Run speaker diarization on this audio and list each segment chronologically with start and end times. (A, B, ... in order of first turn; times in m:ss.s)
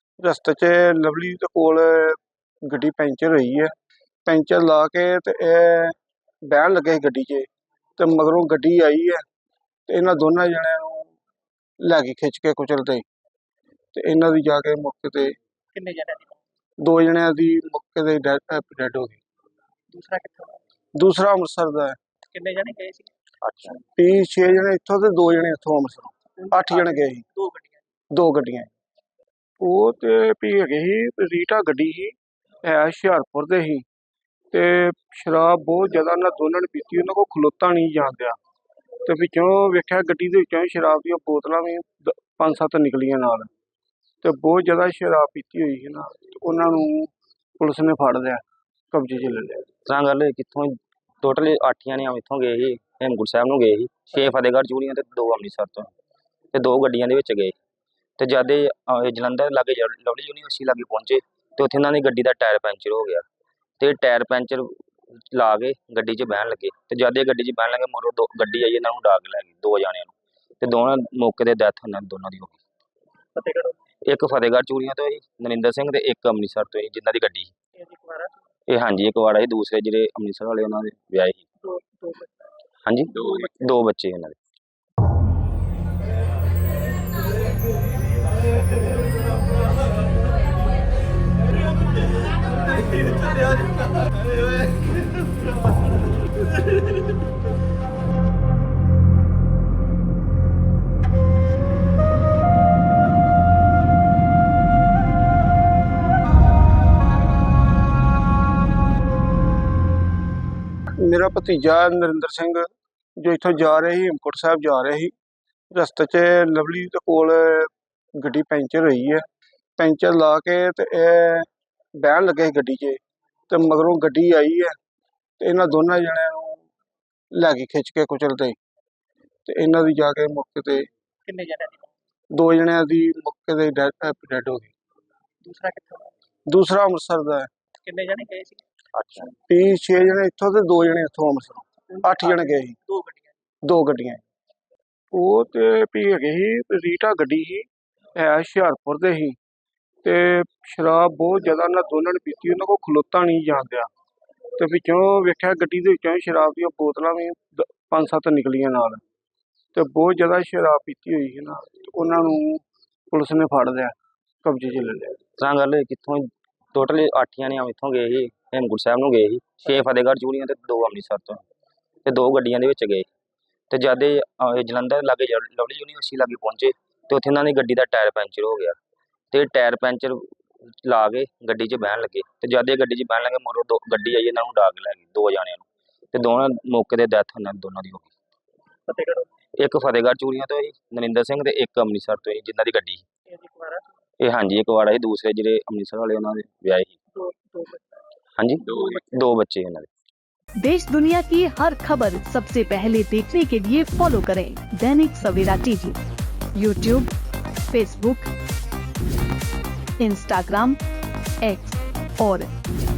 0:00.2-0:03.7 A
0:04.3-0:09.2 A
0:09.9-0:11.2 A
0:11.8-0:13.0 A
0:13.9-0:15.4 A
0:15.7-0:16.4 B
0:16.8-0:19.2 A
0:19.9-0:20.6 B
0:21.0-0:22.0 A
0:22.3-0:23.1 B
0:23.4-0:23.8 C
0:23.8-0:27.2 A
0:26.4-0:27.8 B
0:28.1-0:28.7 A
0:29.6-0:33.8 A
0:34.5-0:38.4 A
0:39.0-0:43.5 A
0:44.2-0:49.7 A
0:49.8-0:55.9 C
0:56.5-0:57.6 C
0:58.2-1:03.2 C
1:03.8-1:12.6 C
1:13.4-1:13.8 B
1:14.0-1:17.5 C
1:17.8-1:18.4 B
1:18.7-1:21.4 C
1:21.6-1:22.5 B
1:22.8-1:24.4 C
1:51.0-1:55.1 A
1:55.7-1:59.2 A
1:59.8-2:04.8 A
2:05.4-2:06.6 A
2:07.3-2:08.6 A
2:09.5-2:10.9 A
2:11.3-2:11.9 B
2:12.3-2:14.7 A
2:15.4-2:16.1 B
2:16.5-2:17.5 A
2:17.8-2:18.6 B
2:19.0-2:19.3 C
2:19.2-2:22.8 A
2:21.9-2:23.3 B
2:23.6-2:24.2 A
2:25.1-2:29.4 A
2:30.0-2:33.9 A
2:34.6-2:39.0 A
2:39.7-2:45.2 A
2:45.4-2:51.4 C
2:52.0-2:53.1 C
2:53.7-2:58.8 C
2:59.3-3:08.1 C
3:08.9-3:09.3 B
3:09.6-3:13.0 C
3:13.3-3:13.9 B
3:14.2-3:16.9 C
3:17.1-3:18.0 B
3:18.4-3:19.9 C
3:20.6-3:26.0 D
3:26.6-3:27.1 D
3:27.7-3:28.3 D
3:30.0-3:30.8 D
3:31.4-3:32.5 D